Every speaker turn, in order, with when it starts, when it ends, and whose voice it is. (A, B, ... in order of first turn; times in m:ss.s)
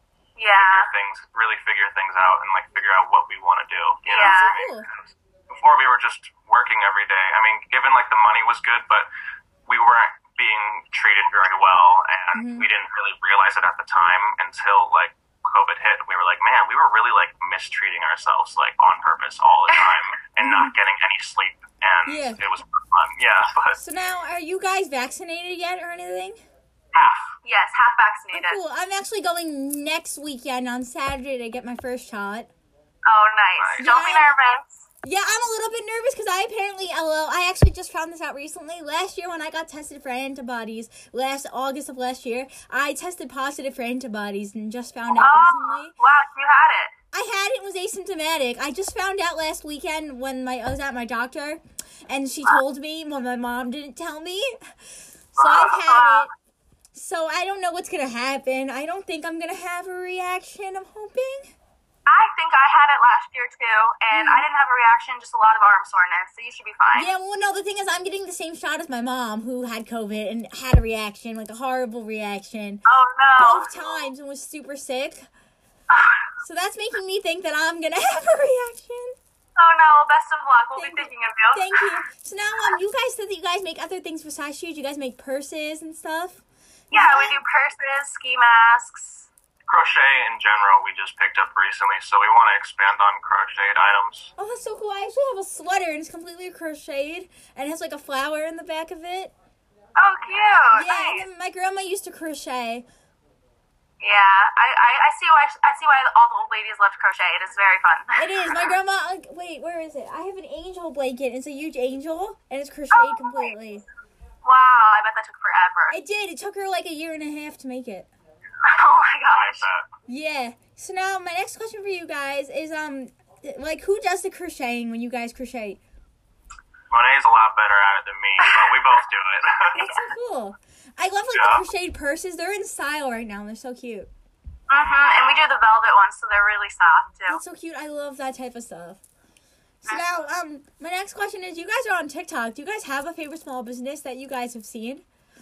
0:00.4-0:00.9 A
0:00.5-0:09.1 B
0:04.0-0:04.5 A
0:04.1-0:04.9 C
0:09.7-0:23.8 B
0:12.3-0:12.7 C
0:20.4-0:20.7 C
0:22.0-0:22.4 C
0:23.7-0:26.4 C
0:26.9-0:27.3 B
0:27.4-0:28.6 A
0:28.3-0:32.5 C
0:33.1-0:34.8 A
0:33.6-0:33.8 B
0:33.8-0:34.3 C
0:35.0-0:45.9 C
0:45.2-0:46.9 A
0:47.1-0:54.6 C
0:55.3-0:56.3 C
0:55.4-0:56.3 A
0:56.9-1:01.5 C
1:02.1-1:07.1 A
1:04.1-1:04.4 C
1:06.9-1:12.8 C
1:12.9-1:14.0 A
1:13.4-1:15.2 C
1:15.9-1:16.2 A
1:16.4-1:19.1 C
1:19.6-1:21.8 A
1:20.8-1:26.4 C
1:26.9-1:29.3 A
1:26.9-1:27.4 C
1:29.7-1:34.3 B
1:34.4-1:39.3 C
1:40.0-1:41.2 A
1:40.7-1:42.8 C
1:44.0-1:48.7 A
1:48.2-1:53.8 C
1:52.9-1:53.5 A
1:54.4-1:56.0 A
1:55.9-1:58.1 C
1:58.7-1:59.6 A
1:59.3-1:59.8 B
2:00.1-2:05.8 C
2:06.9-2:09.9 B
2:08.4-2:08.8 A
2:09.7-2:14.1 C
2:11.3-2:11.6 B
2:14.7-2:17.4 A
2:14.8-2:15.4 B
2:17.3-2:19.0 C
2:19.8-2:25.0 C